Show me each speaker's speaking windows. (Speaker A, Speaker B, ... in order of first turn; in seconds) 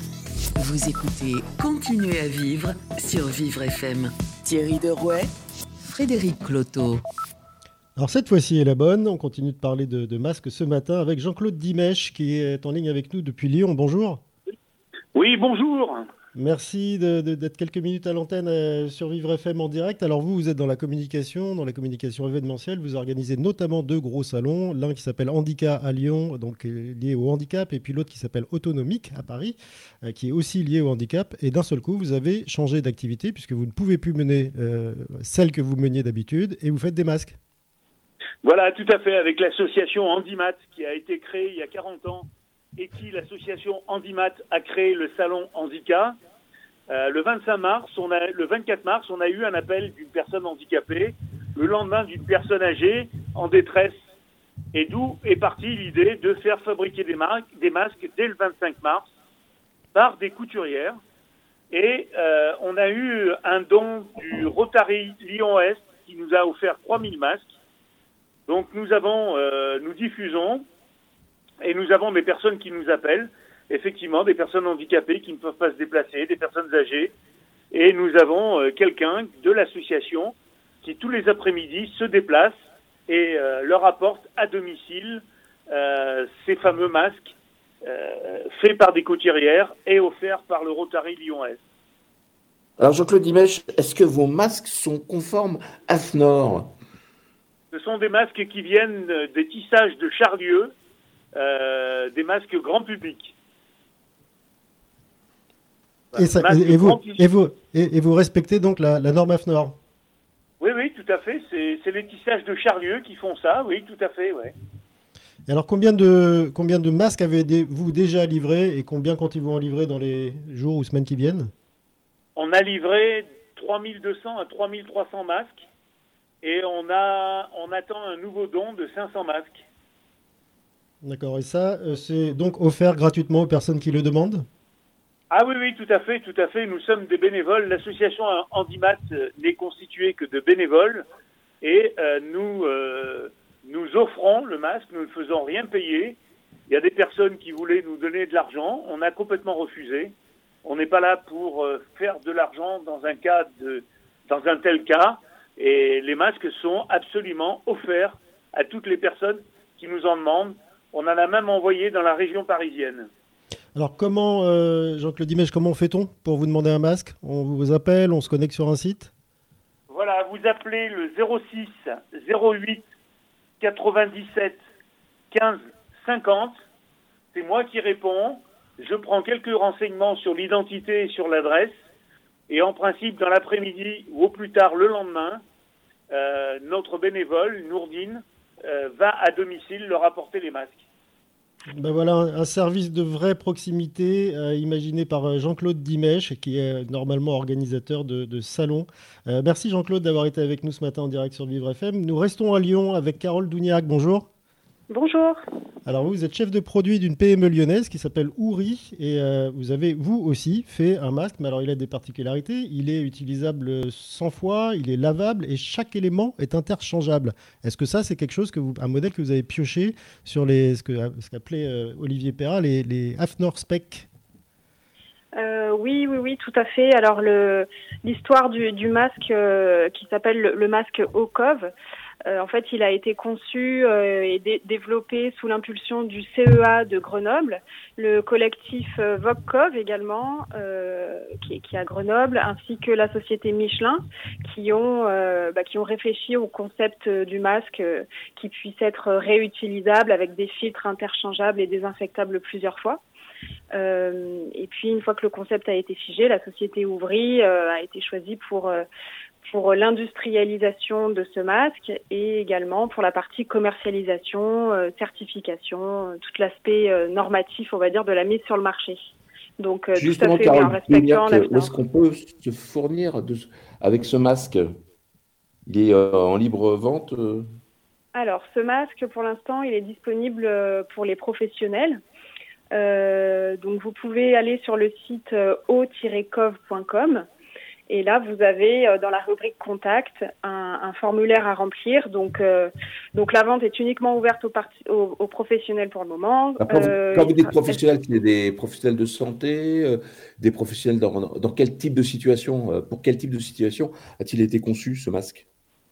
Speaker A: 0.6-5.3, 5.8-7.0
Speaker B: 8.0-14.2, 16.4-37.4, 106.1-109.8, 115.5-121.5, 131.0-134.5, 163.8-169.1, 191.7-204.3, 205.9-224.1
Speaker C: 15.2-16.1, 38.4-46.2, 46.9-54.0, 54.7-59.1, 59.9-61.0, 61.7-67.5, 68.5-70.7, 71.6-77.1, 77.7-91.6, 97.7-100.7, 101.3-103.3, 106.1-107.2, 110.6-114.5, 122.4-125.7, 126.4-129.6, 135.3-141.1, 141.6-146.2, 146.7-163.1, 169.9-172.9, 173.6-174.6, 175.3-176.6, 177.3-181.8, 182.5-185.4, 186.1-190.8
Speaker D: 92.8-96.7, 270.0-274.7, 275.7-277.5, 296.6-305.4
Speaker E: 204.9-205.4, 225.4-231.7, 232.3-253.0, 253.7-258.9, 259.4-269.0, 269.6-271.7, 278.1-282.0, 282.7-287.3, 287.9-297.8